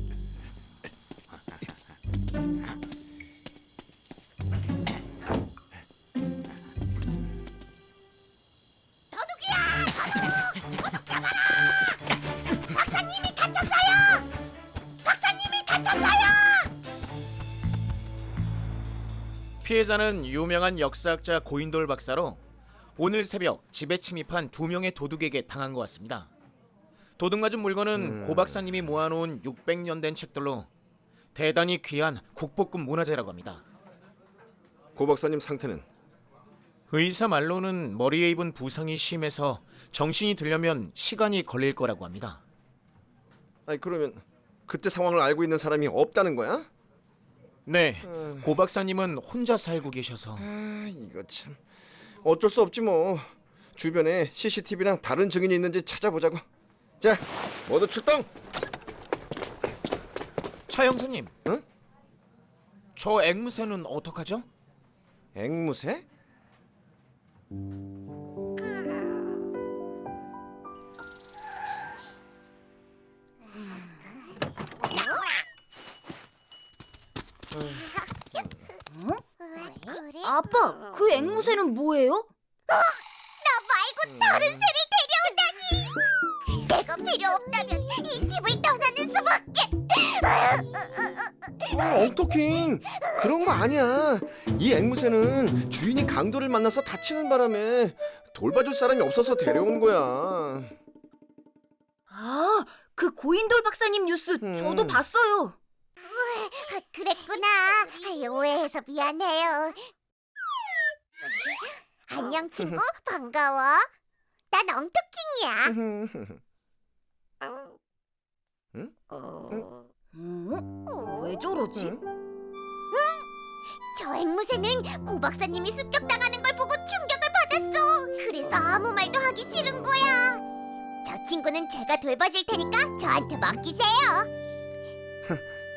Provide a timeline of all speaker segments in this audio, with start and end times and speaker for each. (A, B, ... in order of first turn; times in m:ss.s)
0:09.1-0:11.8 A
0:12.7-0:14.3 A
0:15.0-0:16.7 A
0:19.6-0:22.4 B
0:23.0-0:26.3 B
0:27.2-0:30.7 B
0:28.0-0:28.6 C
0:31.3-0:33.6 B
0:35.0-0:35.8 C
0:36.9-0:42.4 B
0:43.7-0:46.7 C
0:47.7-0:50.4 B
0:48.1-0:48.5 C
0:50.4-0:51.6 C
0:52.2-0:56.4 C
0:57.0-0:58.3 C
1:00.7-1:01.3 B
1:02.9-1:04.4 B
1:05.3-1:06.0 C
1:18.9-1:19.2 D
1:19.4-1:20.4 A
1:20.2-1:22.3 D
1:22.7-1:26.0 A
1:26.5-1:31.8 A
1:31.7-1:40.7 C
1:42.1-1:45.6 D
1:44.4-1:45.0 C
1:46.0-1:49.8 A
1:52.1-1:53.8 A
1:54.5-1:55.7 A
1:55.7-1:56.4 C
2:00.2-2:01.9 D
2:00.9-2:01.5 A
2:01.7-2:02.0 C
2:02.9-2:03.2 A
2:03.9-2:10.4 A
2:11.0-2:14.3 A